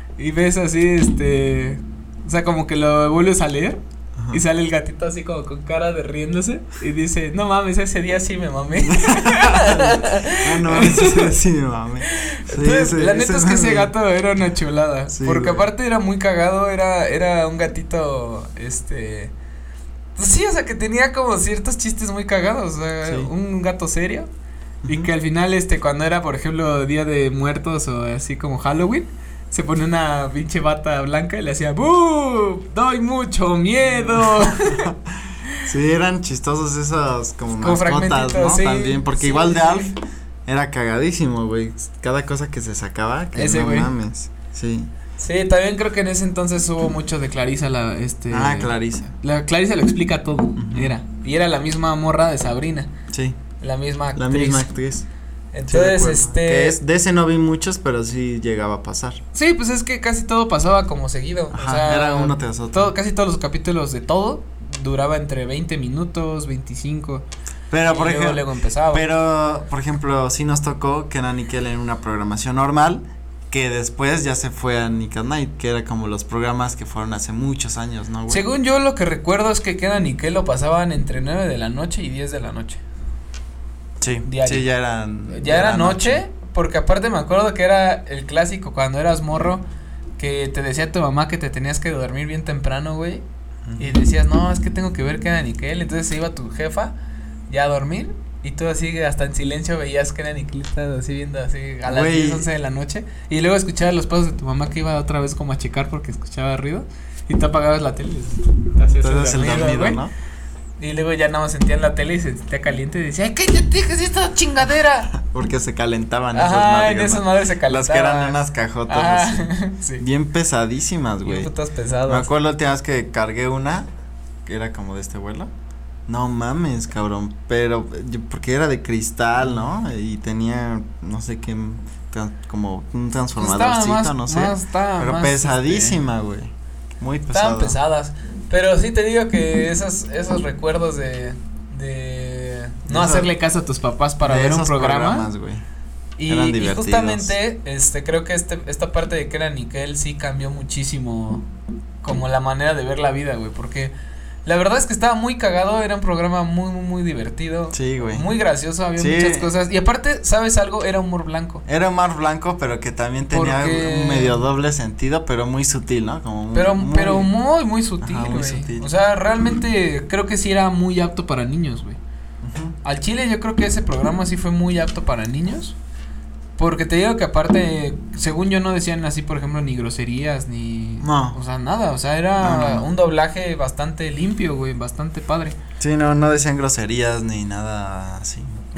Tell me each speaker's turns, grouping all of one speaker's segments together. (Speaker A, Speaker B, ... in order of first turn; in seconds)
Speaker A: 0.2-11.3, 12.1-19.3, 20.1-24.3, 24.9-34.9, 37.6-39.9, 43.3-43.9, 45.2-52.9, 53.6-54.7, 55.5-56.8, 59.3-67.2, 67.8-69.0, 78.3-82.8, 84.2-84.6, 85.3-89.6, 90.2-93.2, 93.8-96.9, 97.5-110.0, 110.8-115.1, 116.3-120.0, 121.2-122.2, 133.4-136.0, 137.3-145.3, 146.2-151.4, 152.0-153.9, 154.4-161.6, 163.3-164.4, 166.5-172.0, 172.8-175.8, 176.6-185.6
Speaker B: 8.8-13.9, 15.1-15.7, 23.0-23.3, 24.8-25.1, 33.9-35.0, 35.5-39.9, 40.5-44.9, 48.3-49.1, 50.6-50.9, 53.1-53.4, 54.1-55.1, 55.7-59.2, 61.5-62.9, 67.7-78.4, 84.0-86.2, 93.7-94.0, 101.8-102.5, 109.0-110.1, 115.1-121.5, 122.1-123.9, 124.5-125.5, 126.1-137.8, 142.9-143.3, 144.2-145.6, 146.2-147.3, 157.7-158.2, 159.0-159.5, 161.7-167.3, 168.0-168.9, 172.4-172.8, 181.0-181.4, 182.4-182.9, 185.8-188.6